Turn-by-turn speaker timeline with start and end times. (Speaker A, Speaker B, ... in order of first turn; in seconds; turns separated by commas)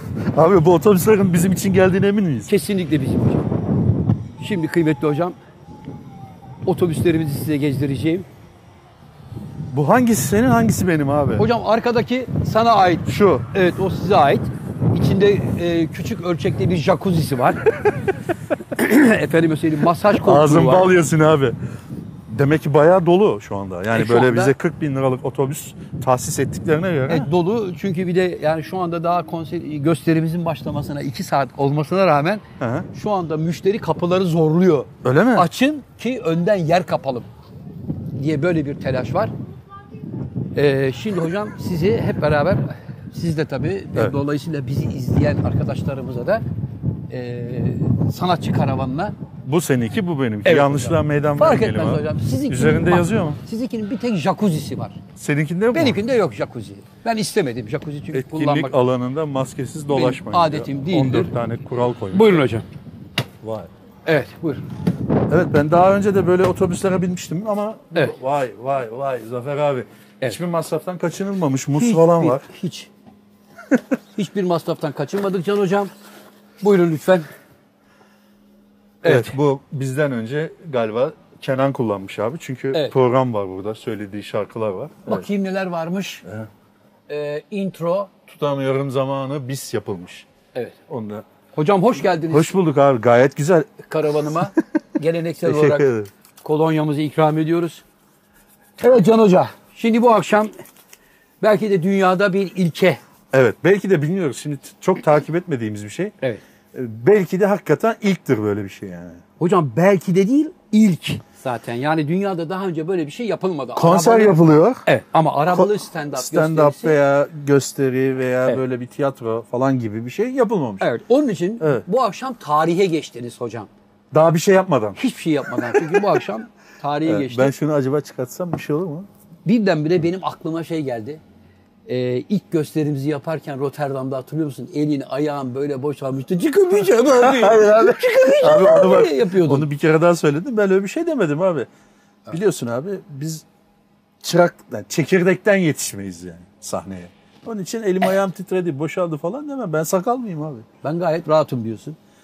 Speaker A: 0.3-2.5, Speaker B: 2.5-3.5, Speaker B: 4.4-5.3, Speaker B: 6.7-8.2, Speaker A: 9.7-11.4, Speaker B: 11.4-17.6, Speaker A: 13.1-13.5, Speaker B: 18.7-20.9, Speaker A: 20.2-21.6, Speaker A: 22.3-27.3, Speaker B: 23.9-24.5, Speaker B: 27.1-37.3, Speaker A: 32.6-32.9, Speaker A: 35.0-35.5, Speaker B: 38.1-39.3, Speaker B: 40.5-46.4, Speaker B: 47.1-49.1, Speaker A: 49.4-53.4, Speaker B: 50.4-55.0, Speaker A: 55.2-56.0, Speaker B: 55.7-58.7, Speaker A: 58.1-62.4, Speaker B: 59.9-61.3, Speaker B: 62.1-62.6, Speaker A: 63.4-63.7, Speaker B: 64.0-64.6, Speaker A: 65.3-72.5, Speaker B: 71.8-72.9, Speaker B: 74.2-75.9, Speaker B: 76.6-77.3, Speaker B: 79.0-79.3, Speaker A: 79.0-85.2, Speaker B: 85.0-86.2, Speaker B: 87.1-88.1, Speaker A: 88.3-90.3, Speaker A: 90.9-91.2, Speaker B: 91.5-92.5, Speaker A: 92.3-93.8, Speaker B: 93.8-95.9, Speaker A: 95.4-96.1, Speaker B: 96.4-97.8, Speaker B: 98.8-100.5, Speaker B: 101.4-103.0, Speaker A: 103.3-106.1, Speaker A: 106.7-109.2, Speaker B: 109.4-117.0, Speaker A: 113.8-114.8, Speaker A: 115.5-120.8, Speaker B: 120.8-123.7, Speaker A: 124.1-125.0, Speaker B: 125.0-127.5, Speaker A: 125.7-126.0, Speaker A: 127.0-129.1, Speaker B: 129.4-131.2, Speaker B: 131.9-139.7, Speaker A: 136.9-141.7, Speaker A: 142.3-143.4, Speaker A: 144.2-150.7, Speaker B: 150.8-152.0